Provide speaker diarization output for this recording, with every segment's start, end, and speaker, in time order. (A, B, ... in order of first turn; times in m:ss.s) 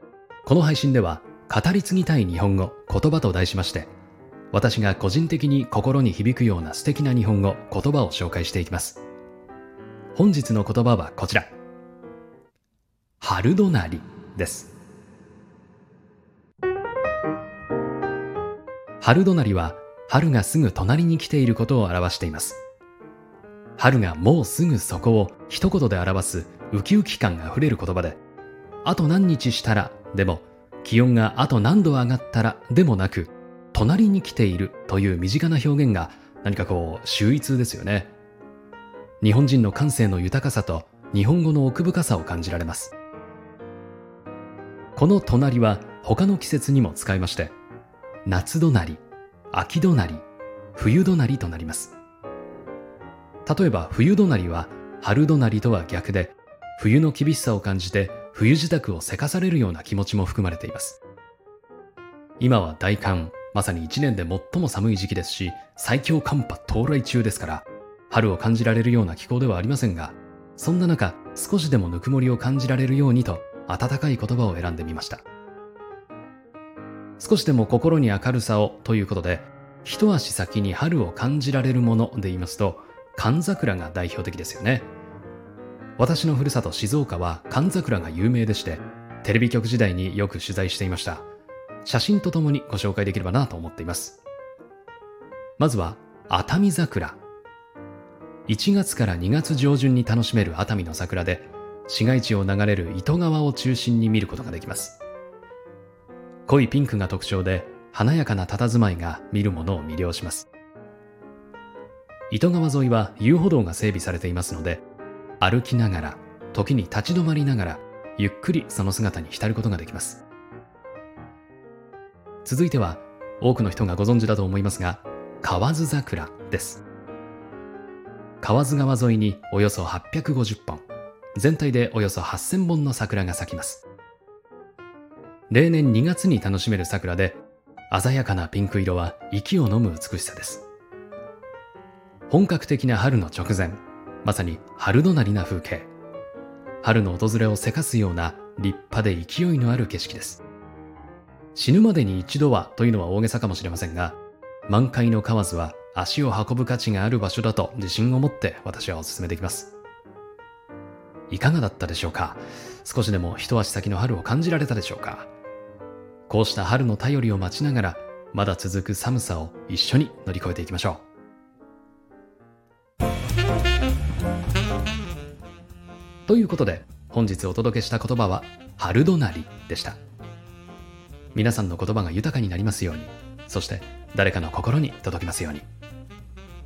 0:00.4-0:03.9 A
0:04.5-0:09.0 A
0:10.2-0:11.5 A
0:13.2-0:14.7 A
0:19.0-0:22.6 A
0:23.8-0:28.2 A
0:28.8-0:38.1 A
0:39.2-0:43.0 A
0:45.0-0:47.5 A
0:48.3-0:49.0 A
0:49.5-0:52.0 A
0:53.5-1:01.0 A
1:02.4-1:15.2 A
1:17.2-1:24.9 A
1:26.0-1:31.3 A
1:31.8-1:34.2 A
1:35.6-1:37.2 A
1:38.5-1:45.0 A
1:46.5-1:50.5 A
1:52.3-1:54.8 A
1:55.4-2:00.2 A
2:02.4-2:06.8 A
2:08.4-2:10.8 A
2:11.4-2:13.8 A
2:15.5-2:20.7 A
2:22.3-2:25.9 A
2:26.8-2:30.4 A
2:31.6-2:39.8 A
2:41.3-2:45.3 A
2:46.3-2:51.0 A
2:56.3-3:00.0 A
3:01.3-3:05.7 A